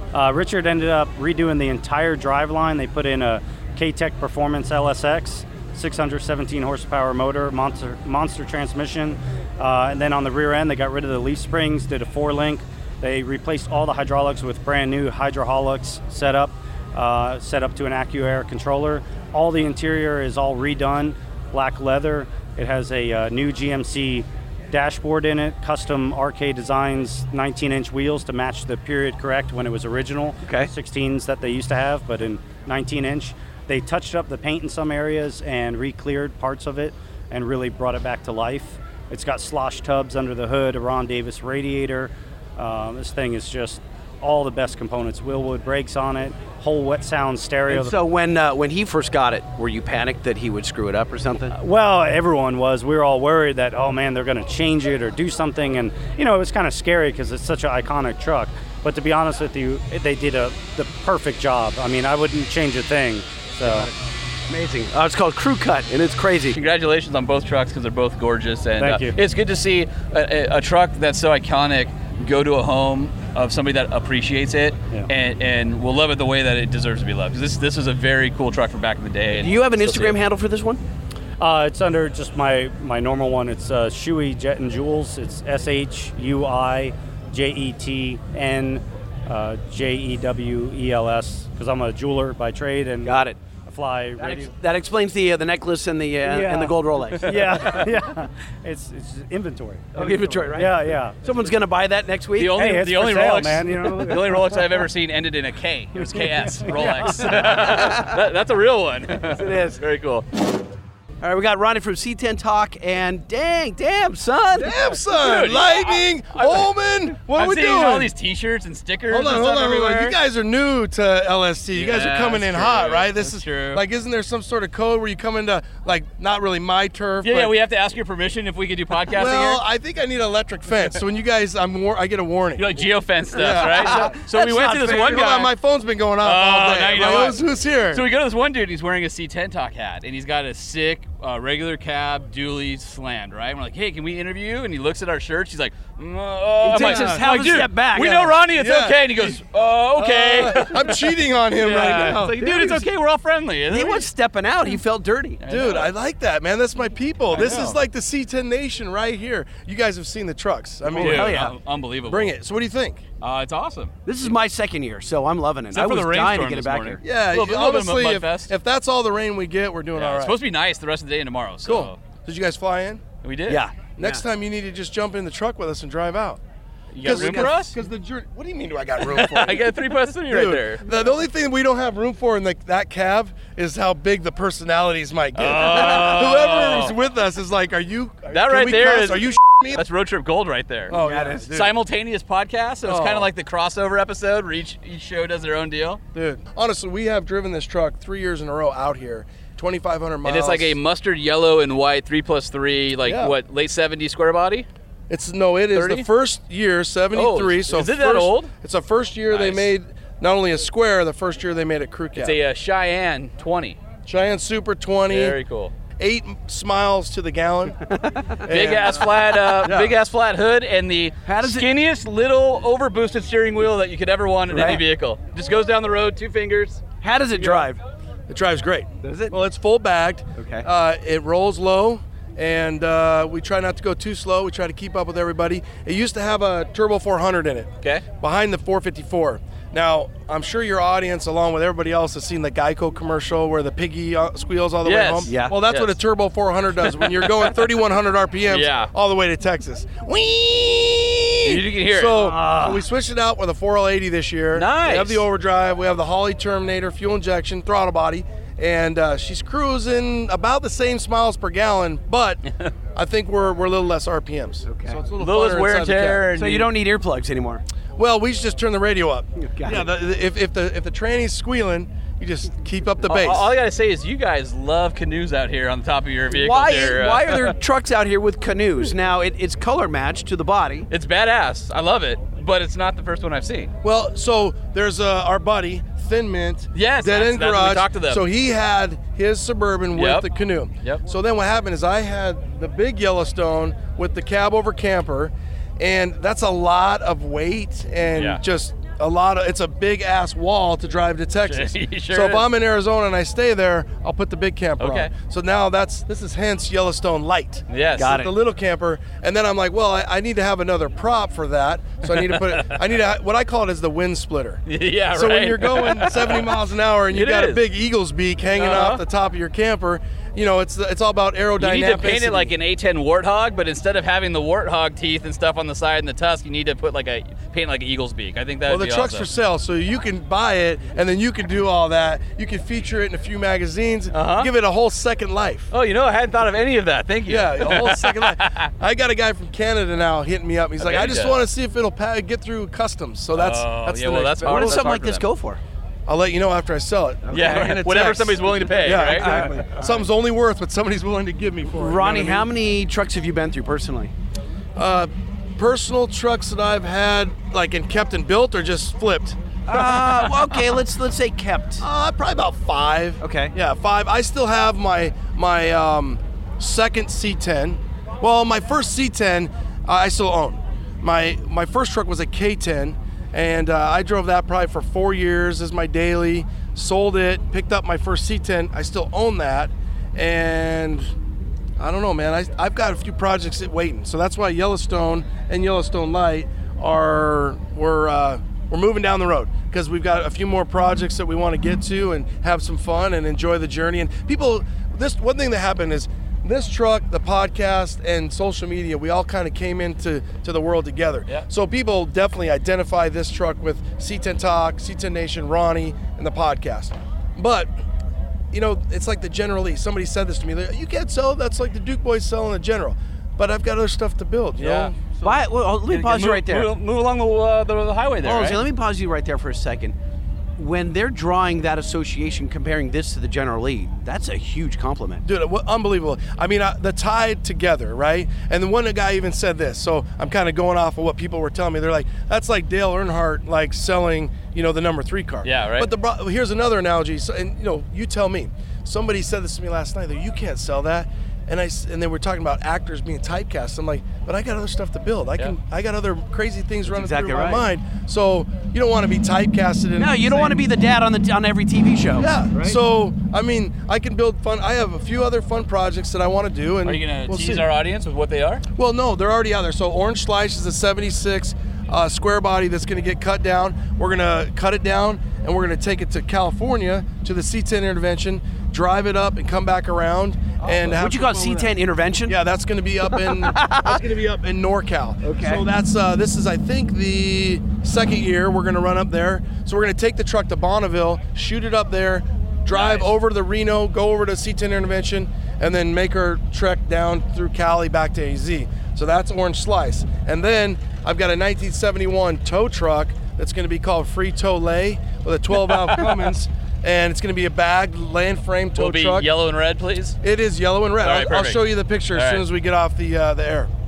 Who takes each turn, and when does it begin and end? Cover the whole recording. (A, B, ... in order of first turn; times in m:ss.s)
0:00.1-0:48.0 A
0:30.4-0:30.7 B
0:47.7-0:51.6 B
0:51.5-1:03.9 A
1:03.6-1:03.9 B
1:04.5-1:06.6 B
1:06.6-1:20.2 C
1:08.8-1:09.2 A
1:19.4-1:20.8 B
1:21.4-1:34.5 A
1:33.0-1:33.4 B
1:34.2-1:37.9 B
1:36.2-1:41.5 A
1:40.0-1:42.6 B
1:42.4-1:50.2 C
1:42.5-1:44.9 A
1:46.0-1:47.8 A
1:47.2-1:48.2 B
1:49.3-1:49.8 B
1:51.2-1:54.7 B
1:54.6-1:58.1 D
1:55.1-2:00.2 C
1:59.1-2:07.5 D
2:01.7-2:03.8 C
2:07.2-2:09.6 C
2:09.1-2:12.7 D
2:12.6-2:15.5 C
2:13.3-2:14.1 D
2:13.4-2:15.5 B
2:14.9-2:18.0 D
2:16.2-2:34.1 C
2:26.6-2:28.3 B
2:26.7-2:27.2 D
2:28.0-2:29.4 D
2:30.0-2:32.8 D
2:33.7-2:35.4 B
2:35.4-2:35.9 C
2:35.5-2:41.4 D
2:37.3-2:37.8 C
2:40.9-2:41.5 B
2:41.0-2:42.3 C
2:42.1-2:43.0 D
2:43.2-2:44.1 C
2:44.1-2:47.0 B
2:45.7-2:48.5 C
2:47.0-2:50.4 D
2:50.0-2:52.0 C
2:51.6-2:53.0 D
2:53.2-2:53.6 C
2:53.5-2:54.2 B
2:54.0-2:56.4 D
2:56.9-2:57.8 C
2:57.0-3:09.8 D
2:59.0-3:00.8 C
3:05.4-3:07.0 C
3:08.3-3:11.0 C
3:10.9-3:11.8 D
3:10.9-3:11.4 B
3:11.5-3:16.0 C
3:12.8-3:13.3 D
3:16.1-3:20.8 D
3:20.2-3:24.7 C
3:23.0-3:23.4 D
3:25.1-3:32.4 D
3:25.7-3:26.1 C
3:27.1-3:28.5 C
3:29.3-3:29.7 C
3:32.2-3:33.8 C
3:34.1-3:35.4 D
3:35.1-3:35.7 C
3:36.0-3:37.8 D
3:38.4-3:40.0 D
3:38.5-3:46.8 C
3:41.3-3:41.7 B
3:44.5-3:44.8 B
3:47.0-3:47.8 B
3:48.3-4:22.4 D
3:49.0-3:49.4 B
3:50.4-3:50.7 B
4:04.8-4:06.0 C
4:05.3-4:05.6 B
4:06.9-4:07.6 C
4:08.5-4:08.9 C
4:11.4-4:12.3 C
4:12.2-4:12.8 B
4:14.6-4:15.2 C
4:23.0-4:26.3 D
4:24.7-4:25.0 B
4:25.2-4:26.7 C
4:26.3-4:27.6 B
4:28.0-4:33.5 D
4:29.4-4:29.8 B
4:33.0-4:37.5 C
4:36.3-4:40.9 B
4:40.9-4:43.7 C
4:43.8-5:22.5 D
4:46.8-4:48.2 C
4:50.0-4:50.3 C
4:58.1-4:58.4 C
5:01.5-5:02.5 C
5:04.8-5:05.1 C
5:07.7-5:08.2 C
5:08.0-5:08.3 B
5:12.1-5:12.8 C
5:14.7-5:16.6 C
5:17.1-5:17.6 C
5:18.6-5:19.0 C
5:21.6-5:29.3 C
5:28.7-5:35.7 D
5:34.1-5:34.5 C
5:35.7-5:38.7 C
5:37.3-5:45.0 D
5:40.8-5:41.4 C
5:43.3-5:45.2 C
5:44.4-5:45.6 B
5:46.1-5:52.5 D
5:47.3-5:47.7 B
5:47.3-5:49.6 C
5:49.0-5:50.0 B
5:51.8-5:54.1 B
5:54.8-5:59.4 D
5:59.7-6:01.8 B
6:01.8-6:21.1 D
6:03.2-6:03.5 B
6:21.8-6:47.8 D
6:48.5-6:55.0 D
6:54.6-6:54.9 C
6:55.2-6:56.7 B
6:55.9-6:58.6 C
6:58.2-7:00.0 B
7:00.6-7:05.2 B
7:05.2-7:30.6 D
7:15.4-7:15.9 C
7:26.9-7:27.6 B
7:30.0-7:32.8 B
7:32.2-7:37.7 D
7:36.8-7:38.6 C
7:38.8-7:51.7 D
7:50.6-7:52.4 B
7:52.3-8:19.3 D
7:53.0-7:54.0 B
7:55.2-7:55.6 B
8:02.7-8:03.1 C
8:18.8-8:20.2 C
8:20.2-8:23.7 D
8:21.0-8:22.4 C